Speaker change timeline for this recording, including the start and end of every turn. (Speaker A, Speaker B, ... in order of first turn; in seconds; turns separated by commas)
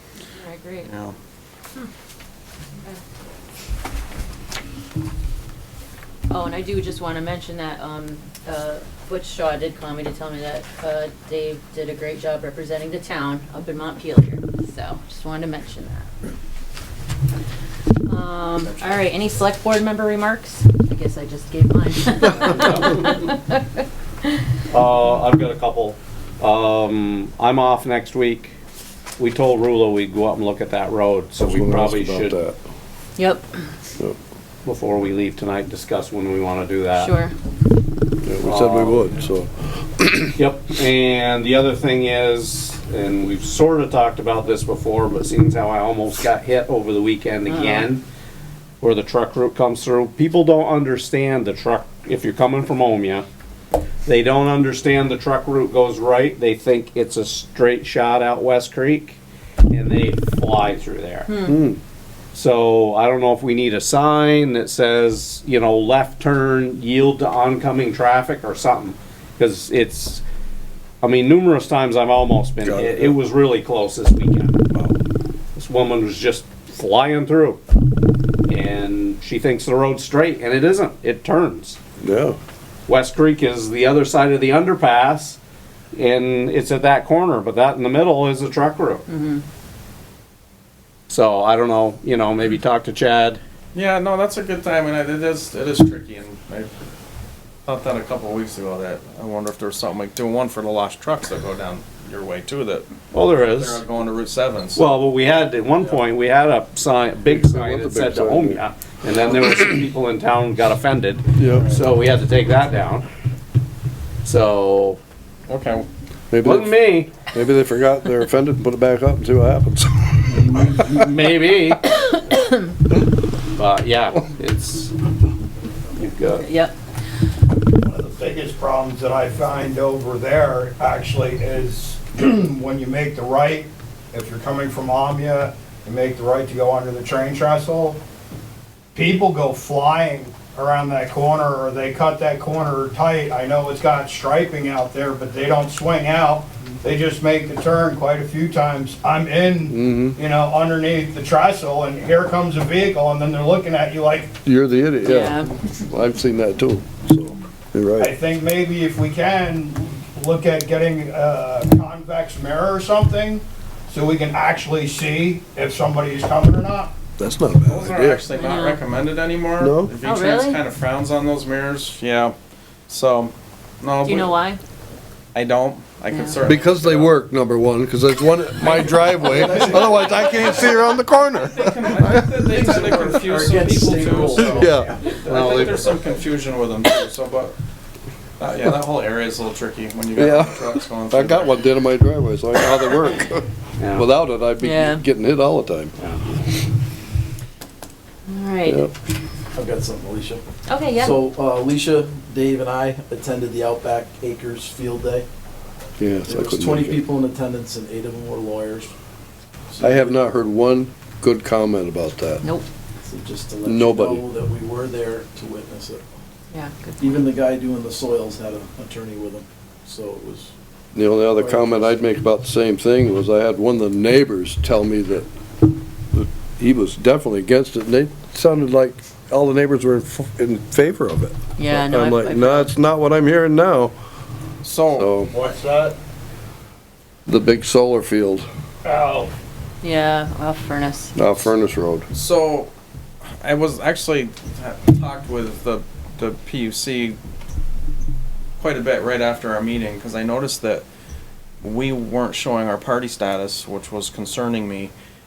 Speaker A: 0.3-0.9, Speaker B: 0.8-1.1, Speaker A: 6.3-16.1, Speaker A: 18.1-24.3, Speaker C: 22.3-23.0, Speaker C: 24.7-28.5, Speaker C: 29.2-32.4, Speaker D: 31.4-32.6, Speaker A: 33.2-33.5, Speaker C: 34.6-37.1, Speaker A: 36.9-37.3, Speaker D: 38.2-40.3, Speaker C: 38.4-39.1, Speaker C: 40.3-48.0, Speaker A: 47.5-47.9, Speaker C: 48.8-53.2, Speaker C: 54.0-59.2, Speaker C: 59.7-61.3, Speaker A: 61.3-61.5, Speaker D: 61.5-61.8, Speaker C: 62.3-70.2, Speaker C: 71.0-74.7, Speaker D: 72.6-73.2, Speaker C: 75.5-77.6, Speaker C: 78.5-81.8, Speaker D: 82.0-82.4, Speaker C: 82.9-85.4, Speaker C: 85.9-89.0, Speaker A: 89.1-89.4, Speaker C: 91.1-93.4, Speaker B: 93.7-96.7, Speaker B: 97.7-102.9, Speaker C: 103.1-103.8, Speaker B: 103.5-104.8, Speaker C: 104.7-113.1, Speaker D: 107.3-108.6, Speaker D: 111.4-111.7, Speaker E: 111.4-111.8, Speaker C: 114.2-115.0, Speaker B: 115.5-115.9, Speaker D: 116.3-120.9, Speaker C: 116.4-117.1, Speaker C: 120.4-121.9, Speaker A: 122.0-122.5, Speaker C: 123.5-124.9, Speaker C: 125.9-126.5, Speaker A: 126.3-126.7, Speaker F: 127.7-138.0, Speaker F: 138.9-154.4, Speaker D: 149.7-150.2, Speaker D: 154.4-158.1, Speaker A: 155.0-155.5, Speaker F: 158.0-166.9, Speaker D: 167.2-168.2, Speaker B: 167.6-172.3, Speaker A: 168.3-168.8, Speaker D: 169.6-169.9, Speaker A: 170.0-170.6, Speaker B: 172.9-174.3, Speaker A: 174.0-174.6, Speaker B: 175.3-177.1, Speaker A: 176.1-176.4, Speaker D: 176.4-182.4, Speaker E: 178.6-181.0, Speaker B: 181.2-187.6, Speaker E: 182.3-185.7, Speaker D: 184.3-185.8, Speaker C: 185.3-185.8, Speaker B: 188.4-191.6, Speaker D: 190.1-195.9, Speaker C: 193.8-194.1, Speaker A: 194.6-195.0, Speaker C: 196.0-196.5, Speaker A: 198.3-198.8, Speaker D: 198.6-198.9, Speaker E: 199.5-205.3, Speaker A: 200.7-201.2, Speaker D: 206.0-207.0, Speaker E: 206.2-208.9, Speaker E: 209.7-210.2, Speaker D: 209.8-212.4, Speaker E: 213.0-216.1, Speaker D: 213.6-214.2, Speaker A: 216.5-217.2, Speaker E: 217.0-220.5, Speaker D: 220.9-225.2, Speaker E: 221.2-222.1, Speaker D: 226.1-233.9, Speaker A: 231.6-232.7, Speaker B: 234.6-235.1, Speaker D: 234.9-235.3, Speaker F: 235.2-235.9, Speaker D: 237.3-238.4, Speaker F: 238.8-239.3, Speaker A: 239.8-241.2, Speaker D: 241.1-242.1, Speaker B: 242.1-242.7, Speaker B: 243.4-247.2, Speaker B: 248.6-250.8, Speaker B: 251.6-254.9